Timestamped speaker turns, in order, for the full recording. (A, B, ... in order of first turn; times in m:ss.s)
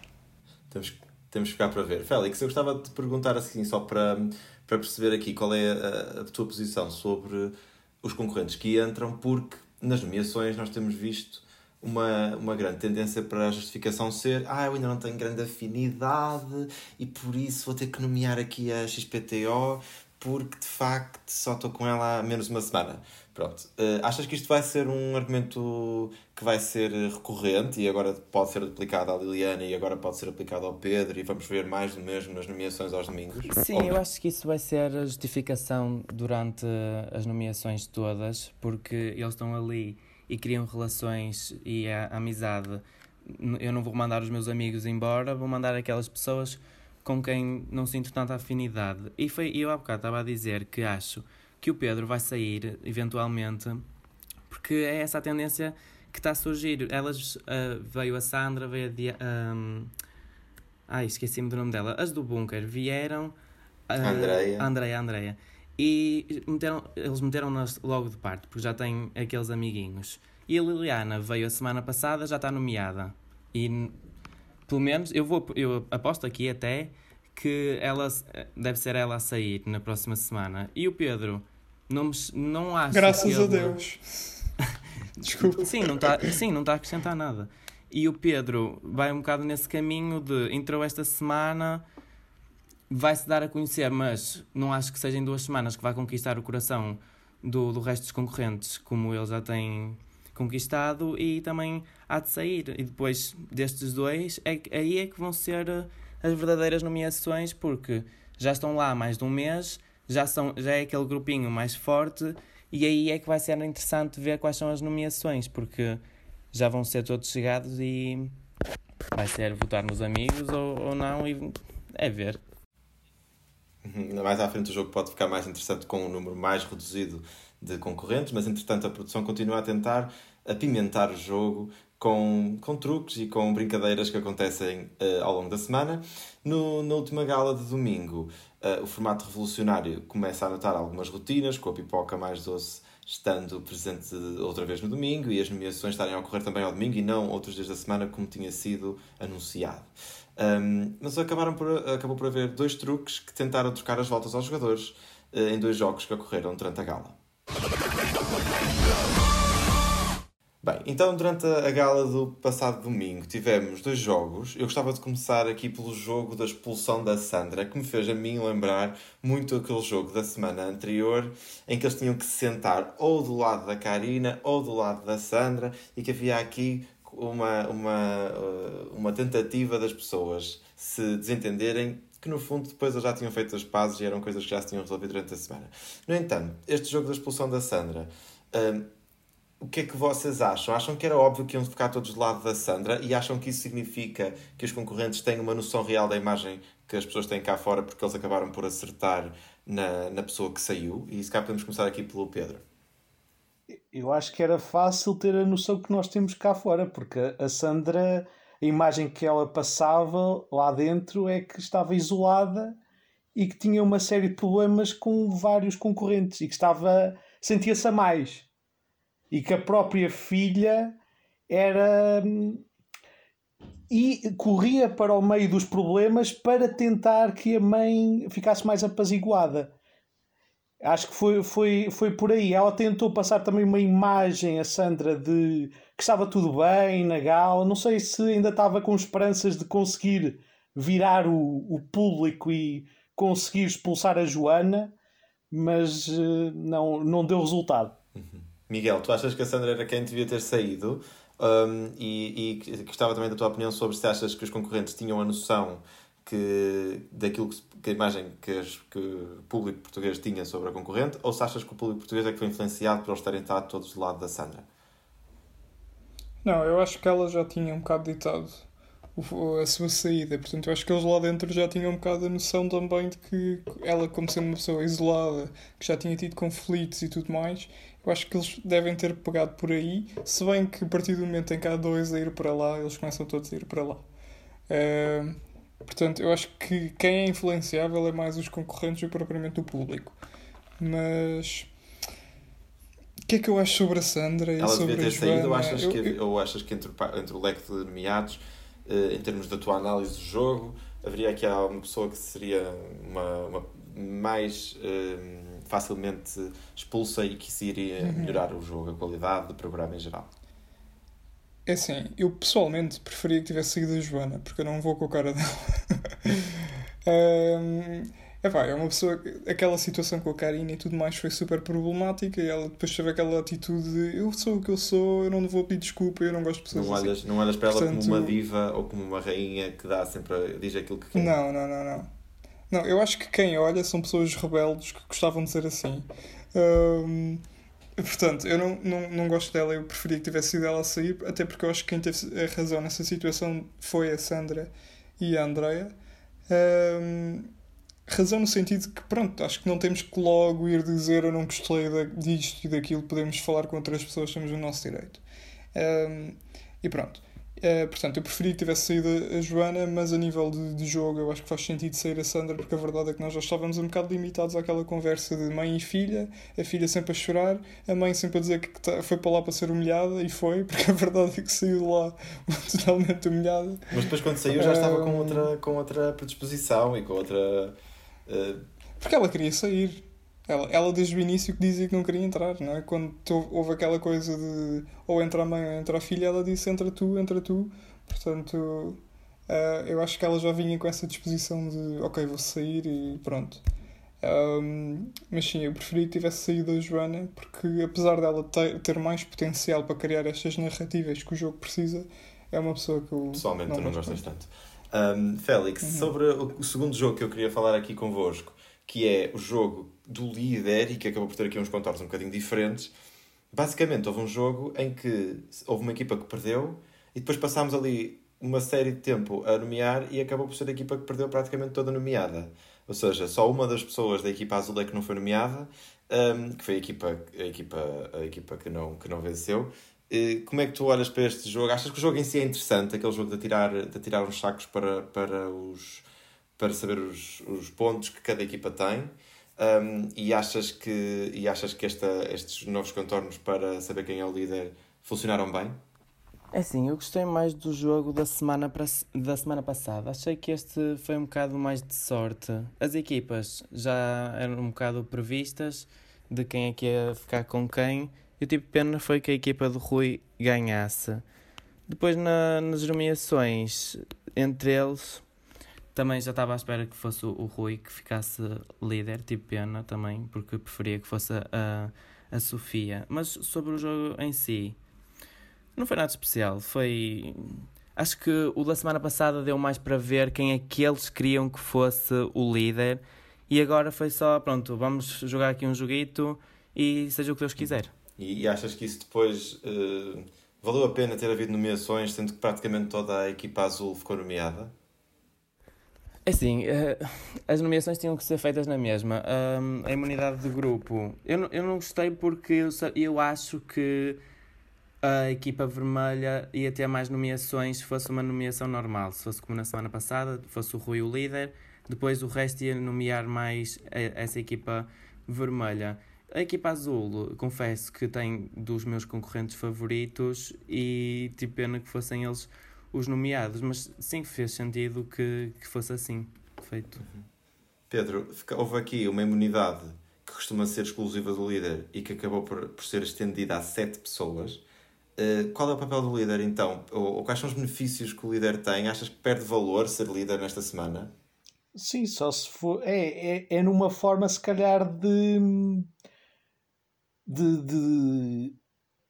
0:00.7-0:34.0 A
0:33.5-0:53.8 B
0:54.5-0:59.9 B
1:00.9-1:03.4 B
1:03.9-1:14.0 B
1:04.0-1:04.7 A
1:14.7-1:23.8 B
1:22.9-1:24.4 C
1:25.2-1:26.2 C
1:25.4-1:31.8 B
1:32.9-1:56.0 B
1:56.5-1:58.4 B
1:59.1-2:02.4 B
2:03.8-2:37.2 A
2:40.6-3:08.9 A
3:09.6-3:22.6 A
3:23.8-3:32.8 D
3:33.4-3:38.5 D
3:39.3-3:41.0 D
3:41.5-3:42.6 D
3:43.9-3:49.7 D
3:50.8-4:04.9 D
4:05.5-4:08.0 D
4:08.2-4:24.7 A
4:26.4-4:28.6 C
4:29.2-4:44.0 C
4:44.7-4:50.2 C
4:50.8-4:51.7 C
4:53.3-4:56.2 C
4:54.6-5:10.3 A
5:08.0-5:08.4 C
5:11.7-5:28.4 C
5:26.7-5:31.3 A
5:31.2-5:32.1 C
5:32.7-5:37.4 C
5:38.0-5:46.0 C
5:46.5-5:47.5 C
5:48.1-5:55.2 C
5:55.7-6:13.8 C
6:13.9-6:17.8 A
6:14.5-6:15.5 C
6:18.3-6:18.6 A
6:19.0-6:33.6 C
6:34.2-6:44.2 C
6:43.3-6:52.9 A
6:45.8-6:46.1 C
6:53.5-7:16.1 A
7:16.6-7:25.8 A
7:26.5-7:41.2 B
7:41.9-7:45.2 B
7:46.0-7:54.8 B
7:55.8-8:07.9 B
8:07.6-8:14.7 A
8:16.3-8:24.2 B
8:25.0-8:47.0 B
8:47.0-8:47.2 A
8:47.9-8:54.6 A
8:55.2-9:01.1 A
9:01.8-9:05.9 D
9:07.3-9:08.6 D